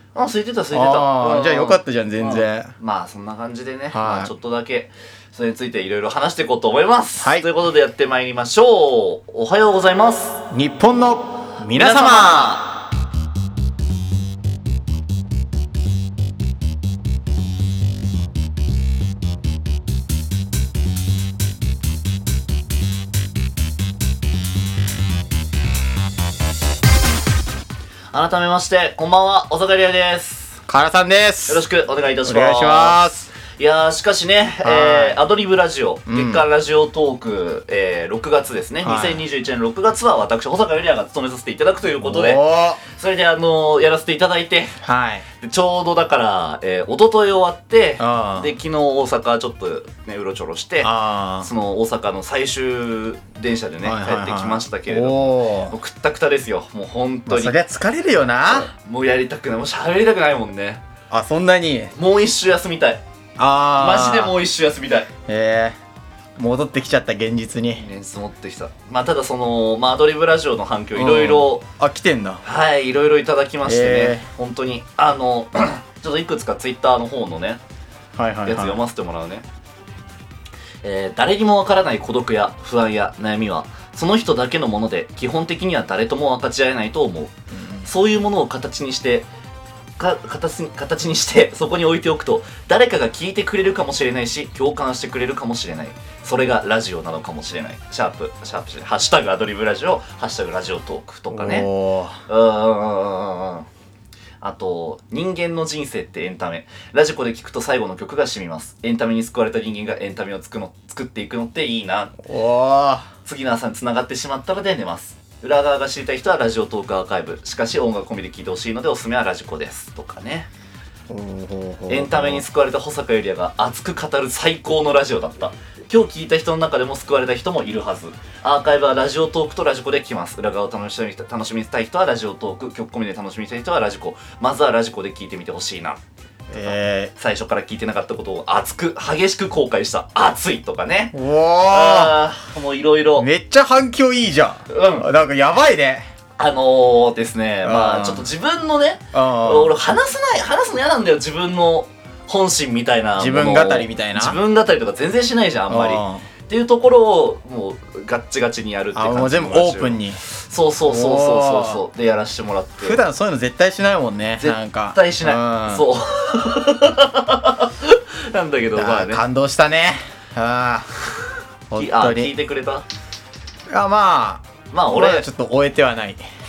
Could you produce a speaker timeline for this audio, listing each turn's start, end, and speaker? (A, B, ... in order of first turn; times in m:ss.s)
0:00.2-0:10.4 A
0:00.7-0:02.7 B
0:03.9-0:04.3 B
0:07.2-0:07.5 B
0:10.5-0:12.6 B
0:11.7-0:12.8 A
0:28.1-0:30.6 A
0:30.7-0:31.6 B
0:31.5-0:33.0 A
0:32.2-0:33.3 B
0:33.5-0:44.8 A
0:34.6-0:35.2 B
0:36.1-0:36.4 B
0:38.8-0:39.2 B
0:42.0-0:42.8 B
0:44.8-0:45.3 B
0:45.4-0:57.6 A
0:48.0-0:48.5 B
0:50.8-0:51.5 B
0:53.8-0:55.8 B
0:57.3-0:58.7 B
0:58.5-1:00.8 A
1:01.1-1:01.9 B
1:02.0-1:03.0 A
1:03.4-1:04.4 B
1:03.8-1:05.1 A
1:05.3-1:05.8 B
1:06.4-1:07.8 B
1:07.8-1:11.6 A
1:11.0-1:12.4 B
1:12.4-1:17.6 A
1:13.6-1:14.3 B
1:18.2-1:18.8 B
1:18.4-1:19.5 A
1:20.8-1:27.3 A
1:27.6-1:27.9 B
1:27.8-1:29.3 A
1:30.0-1:41.7 A
1:41.3-1:42.2 B
1:42.3-1:43.7 A
1:44.4-1:52.2 A
1:52.2-1:53.1 B
1:53.2-2:00.5 A
2:01.1-2:02.4 B
2:01.9-2:16.0 A
2:16.5-2:17.1 B
2:16.6-2:21.2 A
2:21.1-2:22.2 B
2:21.7-2:23.3 A
2:23.2-2:26.0 B
2:24.7-2:25.1 A
2:26.4-2:43.0 A
2:27.6-2:28.3 B
2:29.1-2:29.8 B
2:33.2-2:34.4 B
2:35.7-2:36.3 B
2:39.0-2:40.2 B
2:40.9-2:41.8 B
2:42.8-2:45.8 B
2:44.4-2:49.2 A
2:48.8-2:50.9 B
2:51.7-2:52.3 B
2:51.8-2:52.8 A
2:53.7-2:56.2 B
2:54.7-2:55.3 A